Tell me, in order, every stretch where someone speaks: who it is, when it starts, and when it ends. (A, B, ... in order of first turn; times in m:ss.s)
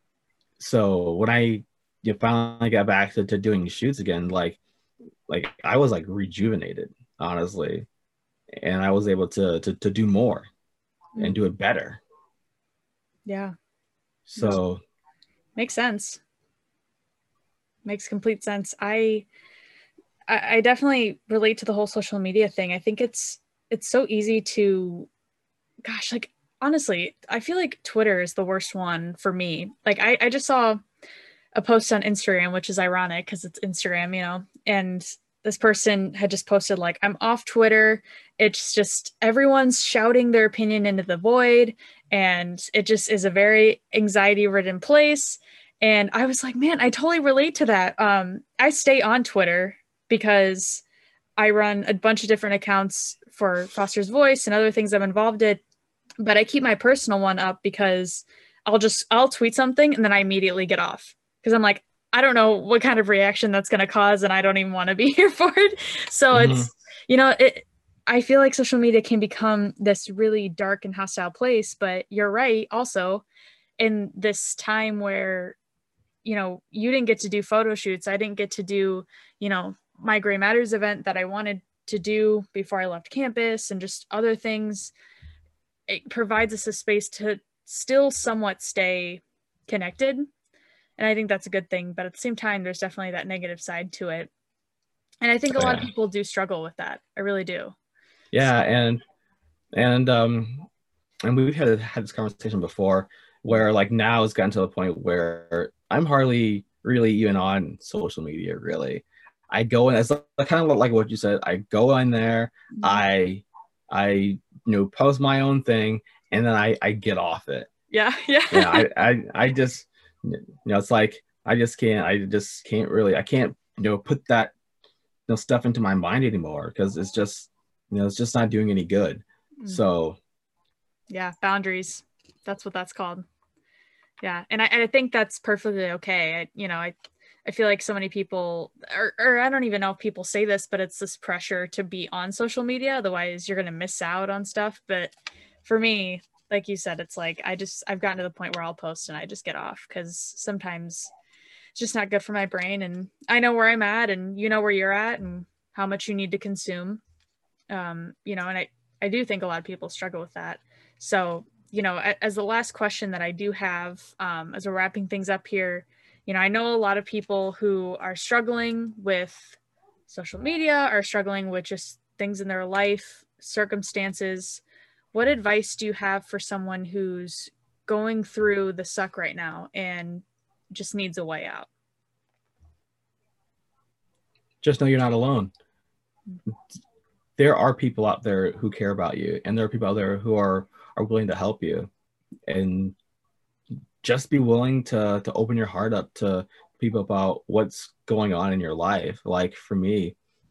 0:00.6-0:04.6 A
0:05.3-0:07.8 A
0:08.6-0:10.5 A
0:11.2-0:12.0 A
0:13.2-0:13.5 B
0:14.3-0:14.8 A
0:15.6-0:16.2 B
0:17.8-0:19.2 B
0:20.3-0:25.1 B
0:25.8-0:30.8 B
0:31.5-0:50.8 B
0:51.4-0:55.6 B
0:56.2-1:13.2 B
1:06.3-1:06.7 A
1:13.8-1:15.6 B
1:16.2-1:24.9 B
1:25.9-1:30.3 B
1:31.0-1:34.3 B
1:35.2-1:37.7 B
1:35.5-1:35.9 A
1:38.3-1:39.0 A
1:39.7-1:40.7 A
1:41.2-1:57.7 A
1:52.7-1:53.0 B
1:57.9-1:58.9 B
1:58.5-2:04.5 A
2:05.3-2:10.2 A
2:11.1-2:13.2 B
2:14.2-2:31.1 B
2:31.7-2:37.0 B
2:37.7-2:49.6 B
2:50.1-2:54.6 B
2:55.1-3:01.7 B
3:04.6-3:05.5 A
3:07.4-3:11.9 A
3:12.5-3:12.9 A
3:14.0-3:20.1 A